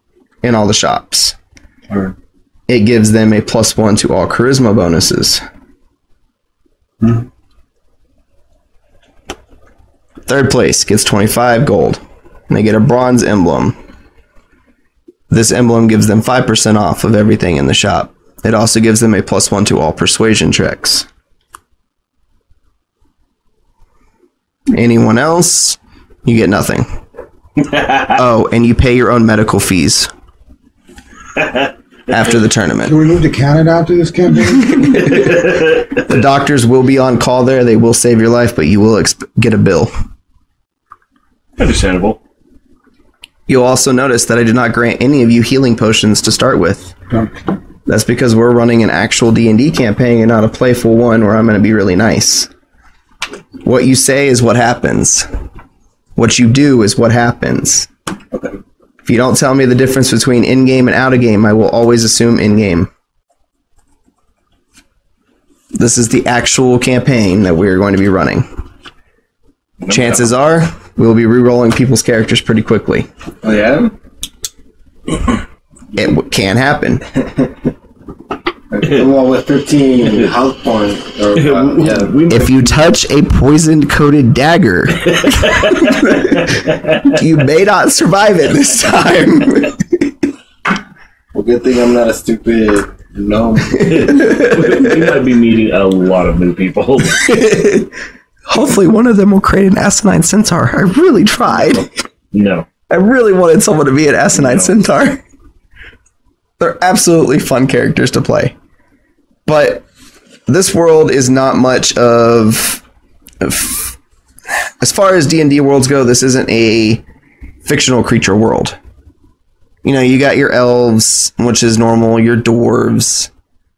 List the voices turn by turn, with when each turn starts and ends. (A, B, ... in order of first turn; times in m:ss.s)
0:00.4-0:01.4 A
0:02.7-0:05.4 A
0:10.2-0:13.7 A
0:15.3-0:21.0 A
0:24.7-0:26.9 A
0:28.1-0:30.1 A
0:32.1-0:32.9 A
0:32.8-0:35.0 B
0:34.9-0:35.8 C
0:36.0-0:39.9 A
0:41.6-0:42.2 C
0:43.5-0:46.9 A
0:47.1-0:47.4 B
0:47.9-0:52.5 A
0:53.6-0:55.2 A
0:56.2-0:57.9 A
0:58.3-0:58.6 D
0:59.0-1:02.9 A
1:05.7-1:08.4 A
1:09.8-1:10.3 C
1:09.9-1:13.1 A
1:13.4-1:13.9 D
1:16.0-1:17.1 A
1:18.7-1:22.3 D
1:21.3-1:22.8 C
1:22.3-1:25.2 A
1:25.1-1:27.0 C
1:26.0-1:26.2 A
1:27.1-1:30.1 A
1:31.3-1:34.3 D
1:33.7-1:37.2 C
1:34.2-1:34.8 A
1:37.2-1:37.9 A
1:38.5-1:41.9 A
1:42.3-1:42.6 C
1:42.9-1:45.2 A
1:44.3-1:44.7 C
1:46.6-1:48.5 A
1:49.4-1:49.8 A
1:50.5-1:52.8 A
1:53.4-1:54.0 A
1:54.8-1:57.0 A
1:57.6-1:58.8 A
1:59.8-2:03.3 A